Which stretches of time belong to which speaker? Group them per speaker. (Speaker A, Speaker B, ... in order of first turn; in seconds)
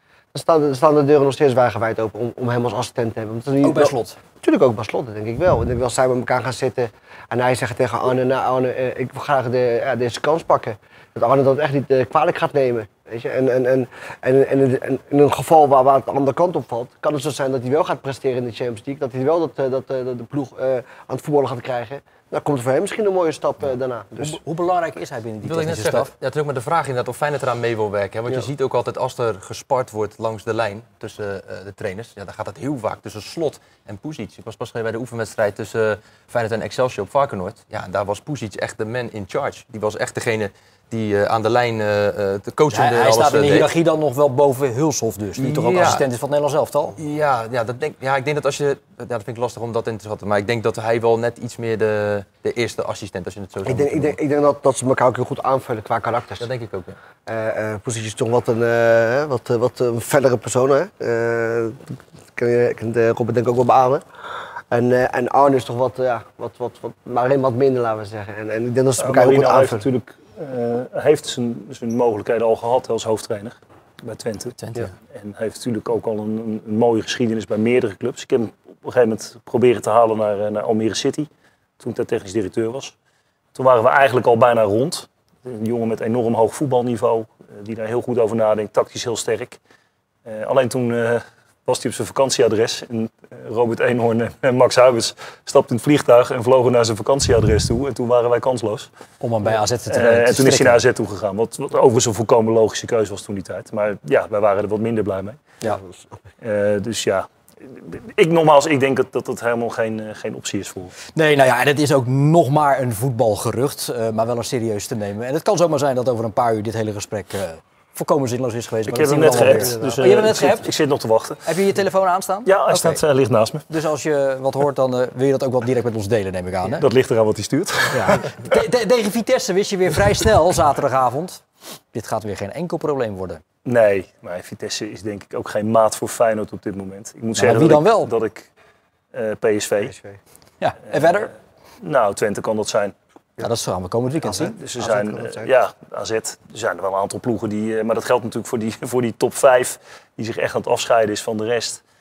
Speaker A: 0.3-24.4, 53.6-56.5, 57.2-64.0, 64.7-69.8, 105.7-106.2, 119.2-120.3, 139.8-140.2, 144.2-145.5
Speaker B: 3.6-4.2, 24.2-26.1, 42.7-47.0, 99.2-100.8, 111.1-120.7, 121.5-123.0, 123.7-126.8, 127.9-133.4, 137.4-138.1, 140.6-141.3, 143.4-144.6
Speaker C: 25.4-43.7, 45.4-46.0, 47.0-54.2, 56.4-57.0
Speaker D: 69.0-74.6, 75.1-81.3, 81.8-82.9, 83.5-89.6, 90.3-98.9, 99.9-105.4, 106.4-110.9, 118.9-121.4, 122.5-123.7, 126.8-128.4, 133.7-138.5, 139.1-139.9, 141.8-142.9, 144.5-151.8